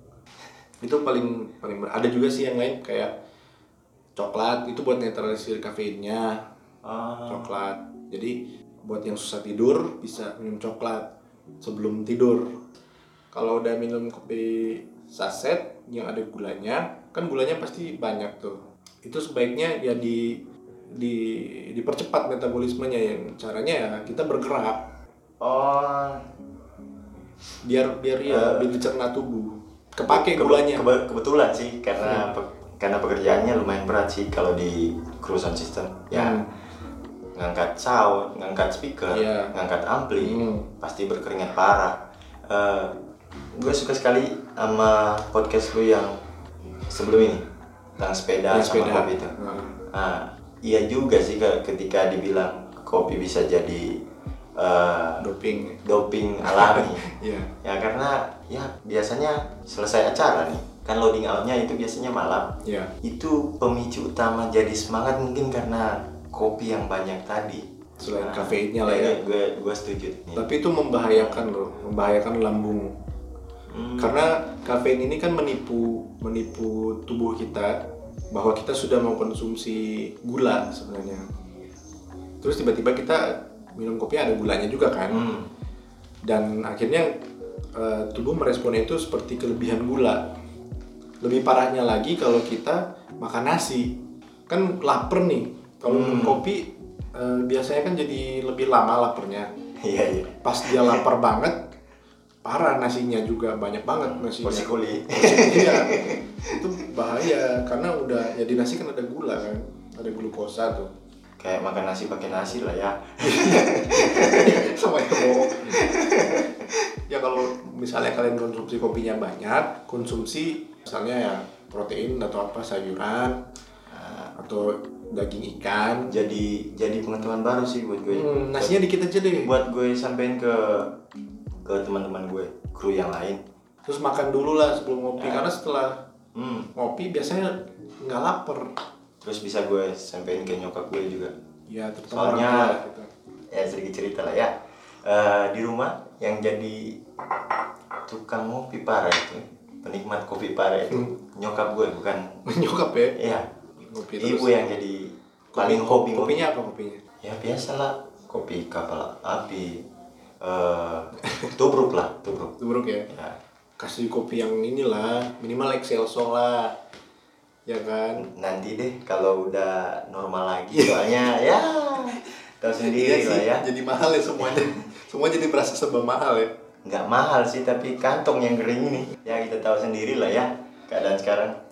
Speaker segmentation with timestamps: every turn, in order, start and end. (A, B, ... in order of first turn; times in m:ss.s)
0:00.8-0:03.1 A
0:04.2-0:06.4 A
0:06.8-0:07.6 B
0:07.3-0:11.1 A
0:11.6-0:12.6 A
0:13.3-0:24.9 A
0:25.4-0:26.2 B
0:27.6-0:30.9 A
0:28.3-0:28.7 B
0:30.1-0:36.4 B
0:32.0-0:32.3 A
0:36.1-0:36.5 A
0:37.4-0:42.9 B
0:39.1-0:39.5 A
0:40.2-0:40.7 A
0:43.6-0:46.2 B
0:46.9-0:47.4 B
0:48.0-0:49.4 B
0:48.5-0:49.8 A
0:49.9-0:54.0 B
0:54.6-0:55.3 B
0:55.2-0:55.8 A
0:55.8-0:57.1 B
0:56.4-0:57.5 A
0:57.6-1:10.4 B
1:02.6-1:02.9 A
1:08.0-1:09.2 A
1:10.4-1:12.9 A
1:11.1-1:11.5 B
1:13.7-1:14.2 B
1:14.0-1:17.8 A
1:18.3-1:21.2 A
1:22.4-1:25.3 A
1:25.1-1:25.5 B
1:26.2-1:27.2 A
1:27.8-1:30.3 A
1:31.2-1:39.5 A
1:35.8-1:36.4 B
1:39.8-1:41.0 B
1:40.4-1:41.7 A
1:42.4-1:50.9 A
1:44.0-1:46.7 B
1:51.4-1:56.9 B
1:53.2-1:55.9 A
1:57.1-2:03.4 A
2:03.9-2:04.3 B
2:04.4-2:06.2 A
2:06.1-2:08.8 B
2:08.1-2:09.6 A
2:09.4-2:11.0 B
2:11.6-2:13.4 B
2:13.9-2:16.0 A
2:15.2-2:15.5 B
2:16.4-2:16.7 B
2:16.8-2:18.8 A
2:19.2-2:21.3 B
2:21.7-2:23.1 A
2:22.1-2:22.8 B
2:23.5-2:27.0 B
2:28.0-2:32.4 B
2:32.5-2:33.2 A
2:33.2-2:33.5 B
2:33.8-2:34.6 A
2:34.2-2:36.4 B
2:35.5-2:37.0 A
2:37.2-2:39.8 B
2:40.4-2:42.6 B
2:42.6-2:43.1 A
2:43.1-2:43.4 B
2:43.8-2:46.8 A
2:47.7-2:48.3 A
2:48.2-2:53.6 B
2:50.7-2:51.0 A
2:52.8-2:56.5 A
2:56.8-3:01.6 B